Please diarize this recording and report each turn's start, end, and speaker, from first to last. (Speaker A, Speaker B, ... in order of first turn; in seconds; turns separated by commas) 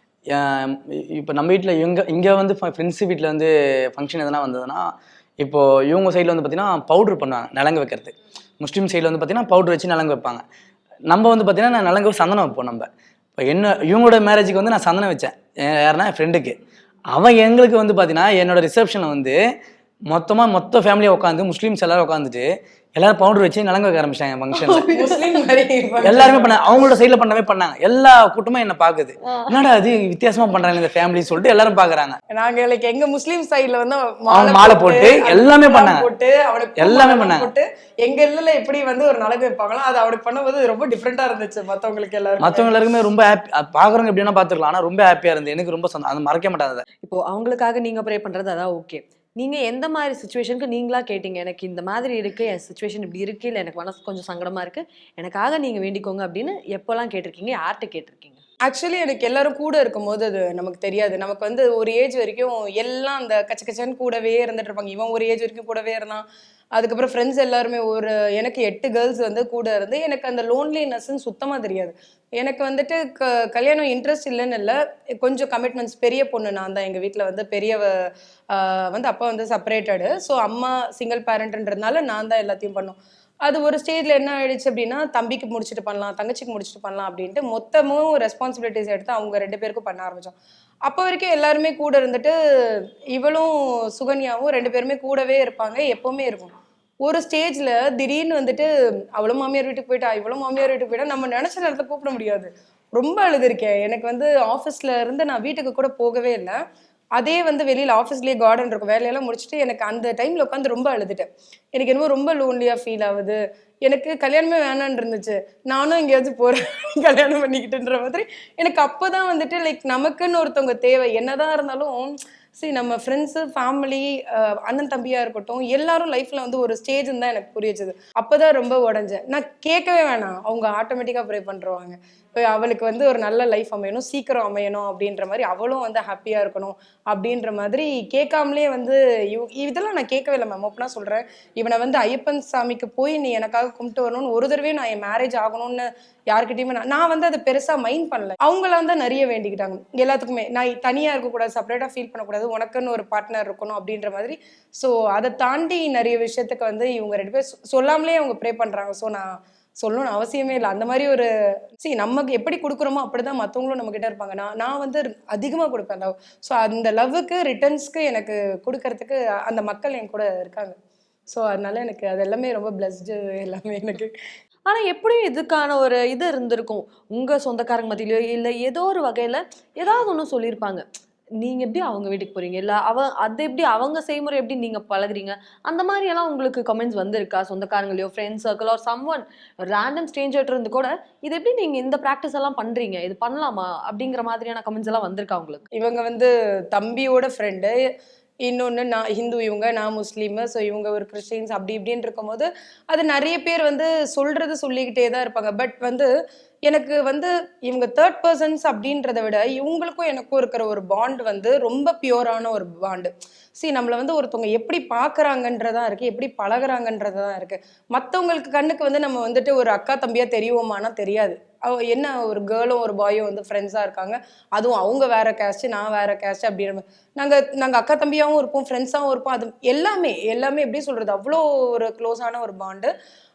Speaker A: 0.3-10.4, Speaker A: 11.1-16.6, Speaker A: 17.1-19.4, Speaker A: 20.1-24.9, Speaker B: 24.9-26.6, Speaker C: 25.0-25.2, Speaker A: 26.0-32.2, Speaker B: 32.3-42.7, Speaker A: 34.3-36.1, Speaker A: 36.8-37.5, Speaker A: 42.4-46.8, Speaker C: 47.0-58.4, Speaker B: 58.6-77.9, Speaker B: 78.5-106.6, Speaker B: 107.2-161.3, Speaker B: 161.8-170.7, Speaker B: 171.3-174.1, Speaker C: 174.7-180.8, Speaker C: 181.4-195.6, Speaker B: 195.7-197.8, Speaker B: 198.4-206.1, Speaker B: 206.7-232.9